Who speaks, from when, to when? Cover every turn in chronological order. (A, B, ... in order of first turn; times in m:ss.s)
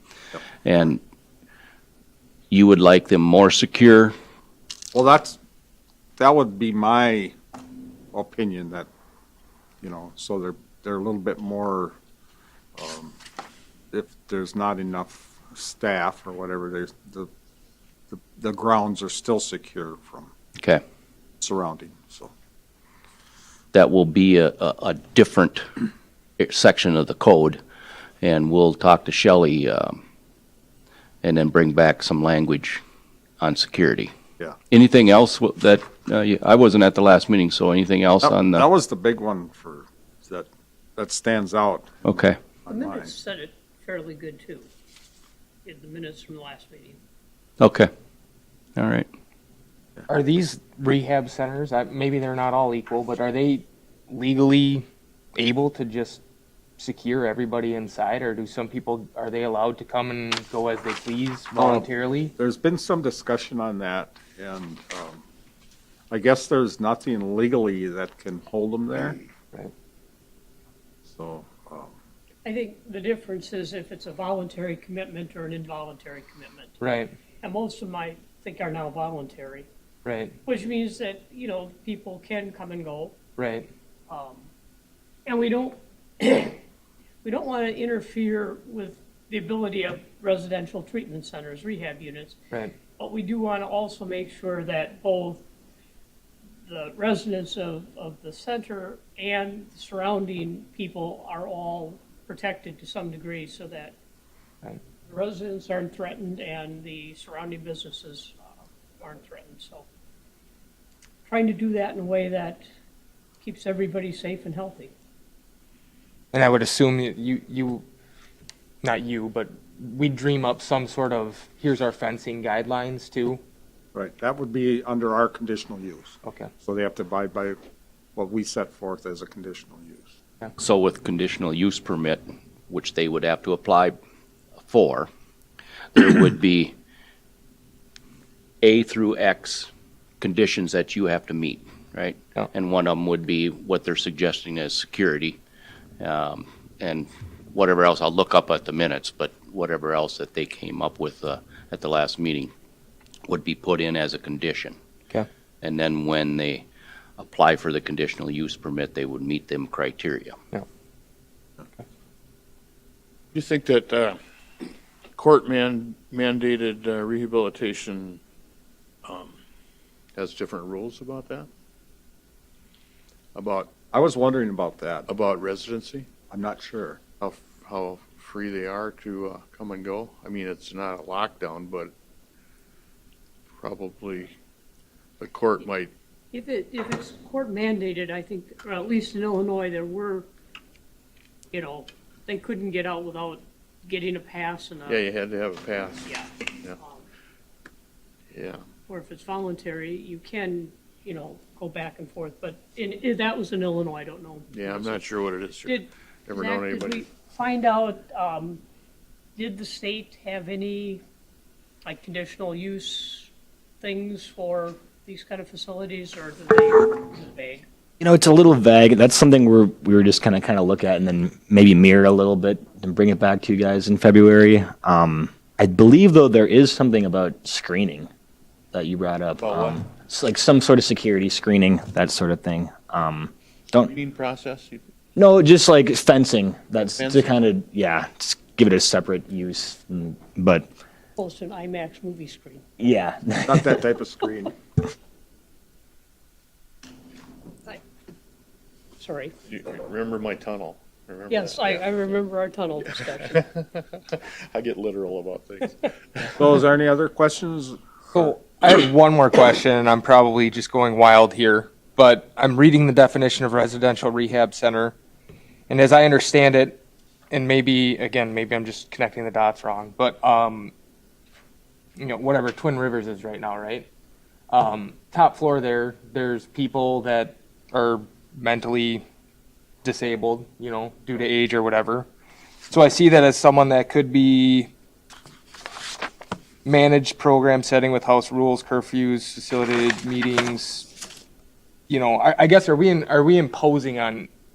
0:00.6-0:01.0 A
0:02.5-0:04.1 A
0:04.9-0:05.4 B
0:06.2-0:07.3 B
0:08.1-0:08.9 B
0:09.8-0:12.0 B
0:12.8-0:13.1 B
0:13.9-0:17.3 B
0:18.1-0:20.3 B
0:21.4-0:22.3 B
0:23.7-0:25.7 A
0:26.4-0:27.6 A
0:28.2-0:30.0 A
0:31.2-0:32.8 A
0:33.4-0:34.1 A
0:34.7-0:38.7 A
0:38.2-0:43.1 B
0:42.0-0:42.4 A
0:42.7-0:44.7 C
0:45.6-0:47.0 C
0:47.6-0:47.9 A
0:48.8-0:49.1 A
0:50.1-0:56.2 D
0:56.8-1:02.3 D
1:01.5-1:05.2 B
1:06.1-1:09.2 B
1:11.1-1:11.9 B
1:12.4-1:16.8 C
1:16.8-1:17.1 D
1:17.4-1:19.7 C
1:20.0-1:20.4 D
1:20.4-1:23.2 C
1:23.4-1:23.7 D
1:24.1-1:24.5 C
1:25.2-1:26.6 C
1:27.2-1:32.4 C
1:33.0-1:35.4 C
1:36.7-1:44.0 C
1:45.1-1:49.8 C
1:51.2-1:52.6 C
1:53.4-1:54.9 C
1:56.3-1:57.8 D
1:58.8-2:03.4 D
2:03.9-2:07.6 B
2:08.2-2:10.1 B
2:10.6-2:14.0 A
2:14.6-2:15.1 A
2:15.9-2:16.7 A
2:18.6-2:19.7 A
2:20.2-2:25.4 A
2:26.0-2:32.5 A
2:33.3-2:34.8 A
2:35.6-2:36.6 A
2:37.2-2:40.4 A
2:43.3-2:44.2 E
2:45.2-2:48.2 E
2:49.0-2:49.4 E
2:50.1-2:51.5 E
2:53.3-2:53.7 E
2:53.9-2:55.0 B
2:55.1-2:56.1 E
2:56.3-2:57.0 B
2:57.2-3:01.9 E
3:03.6-3:04.3 E
3:05.2-3:05.9 E
3:06.3-3:10.3 C
3:11.5-3:15.0 C
3:14.9-3:16.8 E
3:16.0-3:17.0 C
3:18.3-3:18.6 E
3:18.9-3:25.1 C
3:24.5-3:27.1 E
3:25.6-3:28.6 C
3:29.4-3:31.0 C
3:31.8-3:37.6 C
3:38.0-3:48.1 F
3:48.7-3:53.9 F
3:49.4-3:49.8 E
3:53.8-3:54.8 E
3:55.2-4:00.7 F
3:57.0-3:57.4 E
4:01.2-4:02.6 C
4:02.8-4:03.8 F
4:03.4-4:04.5 B
4:09.0-4:09.3 C
4:09.5-4:11.9 E
4:11.3-4:13.4 C
4:12.8-4:16.5 E
4:16.4-4:17.8 B
4:18.1-4:24.9 D
4:25.7-4:26.8 D
4:27.3-4:30.7 D
4:32.0-4:33.9 D
4:34.5-4:39.0 D
4:39.8-4:42.1 D
4:42.7-4:44.7 D
4:46.6-4:50.9 D
4:51.9-4:54.3 D